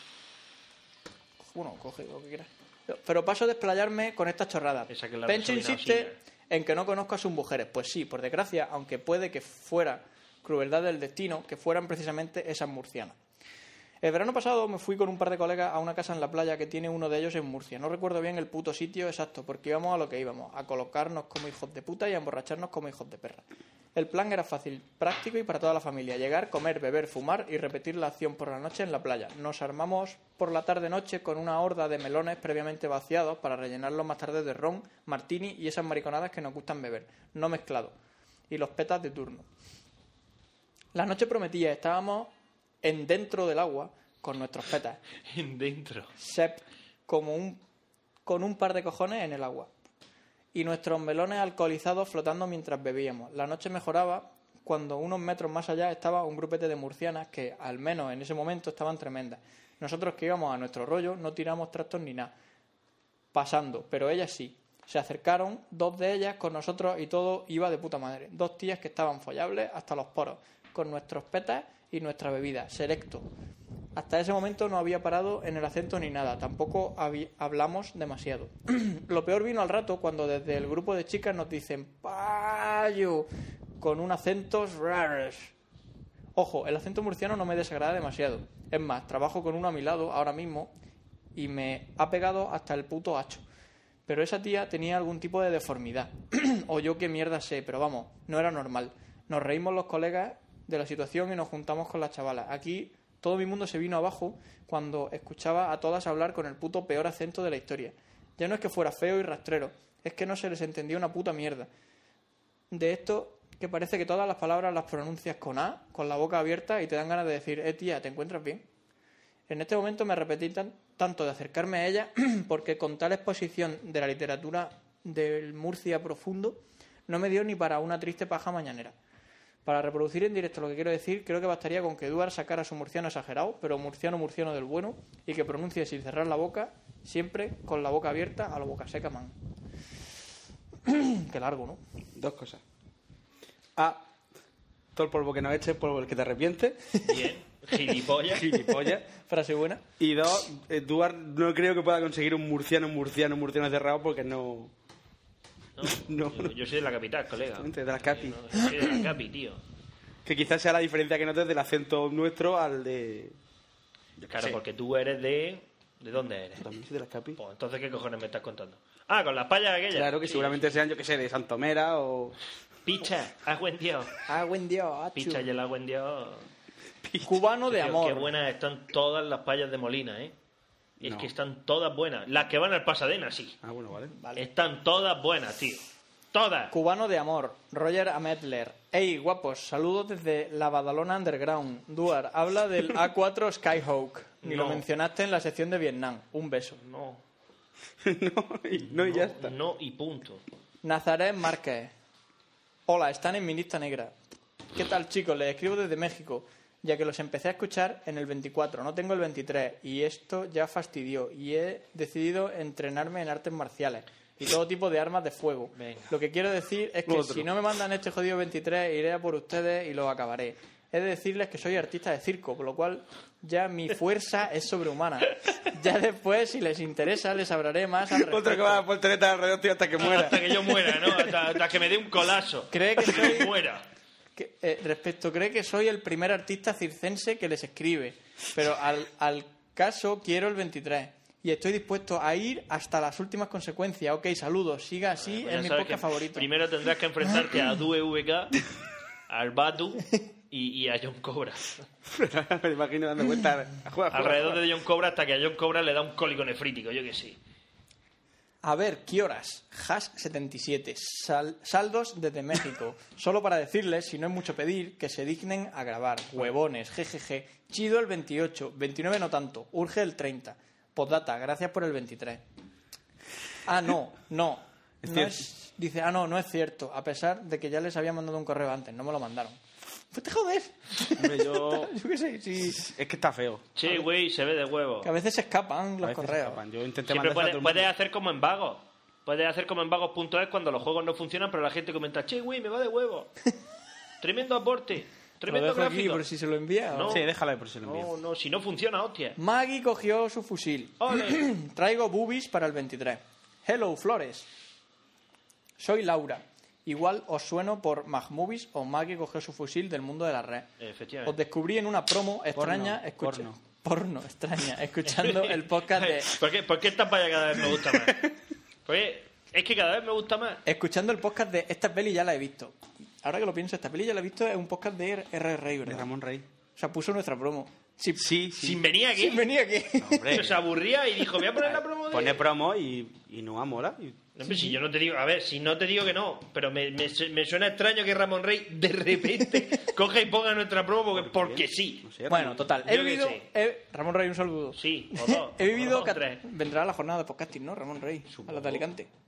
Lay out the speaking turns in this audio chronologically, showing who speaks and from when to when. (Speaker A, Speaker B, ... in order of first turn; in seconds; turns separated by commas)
Speaker A: 1.4-13.2, Speaker B: 4.9-6.1, Speaker A: 14.0-37.9, Speaker A: 38.5-39.5, Speaker A: 40.9-42.3, Speaker A: 42.8-45.0, Speaker B: 45.3-46.1, Speaker A: 46.2-47.6, Speaker A: 48.2-49.7, Speaker A: 50.5-62.3, Speaker A: 63.3-73.3, Speaker A: 74.0-83.3, Speaker A: 83.8-85.5, Speaker A: 86.3-90.7, Speaker A: 91.3-93.4, Speaker A: 94.1-111.7, Speaker A: 112.7-118.6, Speaker A: 119.5-128.9, Speaker A: 129.6-139.3, Speaker A: 140.8-141.8, Speaker C: 142.2-142.6, Speaker C: 143.8-144.0, Speaker C: 144.9-146.9, Speaker B: 147.1-148.5, Speaker C: 148.3-149.0, Speaker A: 149.1-149.8, Speaker C: 150.0-154.7, Speaker B: 155.8-159.6, Speaker C: 155.8-156.5, Speaker C: 157.6-158.6, Speaker C: 160.2-163.3, Speaker C: 164.2-164.6, Speaker B: 164.3-166.7, Speaker C: 166.6-167.4, Speaker B: 167.4-170.8, Speaker C: 169.9-172.3, Speaker B: 172.8-174.1, Speaker A: 174.2-175.4, Speaker B: 175.2-176.4, Speaker C: 177.0-177.4, Speaker A: 177.2-178.3, Speaker B: 177.7-180.3, Speaker C: 181.0-181.3, Speaker B: 181.0-183.6, Speaker C: 183.6-184.1, Speaker A: 184.1-184.4, Speaker B: 184.3-186.7, Speaker A: 186.7-196.8, Speaker B: 194.4-194.8, Speaker B: 196.8-197.2, Speaker C: 198.0-199.6, Speaker B: 199.0-200.4, Speaker A: 200.8-201.9, Speaker A: 202.9-204.1, Speaker A: 204.7-228.8, Speaker B: 215.8-216.1, Speaker C: 217.1-217.5, Speaker C: 228.1-231.0, Speaker B: 230.0-233.8, Speaker A: 232.7-233.5, Speaker A: 234.3-246.5, Speaker B: 245.2-248.6, Speaker B: 249.3-251.8, Speaker C: 252.1-254.6, Speaker B: 254.1-257.4, Speaker A: 258.6-272.4, Speaker A: 273.6-279.6, Speaker C: 275.0-275.4, Speaker A: 280.1-282.8, Speaker C: 281.1-281.9, Speaker C: 282.6-283.6, Speaker B: 283.8-285.1, Speaker A: 285.0-286.6, Speaker C: 286.0-287.9, Speaker B: 287.1-293.3, Speaker B: 294.2-296.2, Speaker A: 295.4-297.2, Speaker B: 296.9-297.2, Speaker C: 297.1-298.1, Speaker B: 297.8-299.4, Speaker A: 299.4-304.5, Speaker B: 301.0-301.4, Speaker A: 305.8-310.7, Speaker B: 310.8-311.3, Speaker A: 311.2-316.3, Speaker C: 312.5-313.5, Speaker B: 315.1-318.3, Speaker B: 318.9-320.6, Speaker A: 320.6-326.1, Speaker C: 325.8-326.4, Speaker A: 326.8-328.3, Speaker C: 328.2-328.8, Speaker B: 328.6-329.4, Speaker A: 329.1-330.4, Speaker C: 330.0-330.6, Speaker B: 330.3-332.4, Speaker C: 331.6-334.2, Speaker B: 334.4-342.1, Speaker A: 334.4-334.8, Speaker C: 341.1-342.6, Speaker A: 342.3-349.1, Speaker B: 342.8-343.4, Speaker B: 344.8-346.4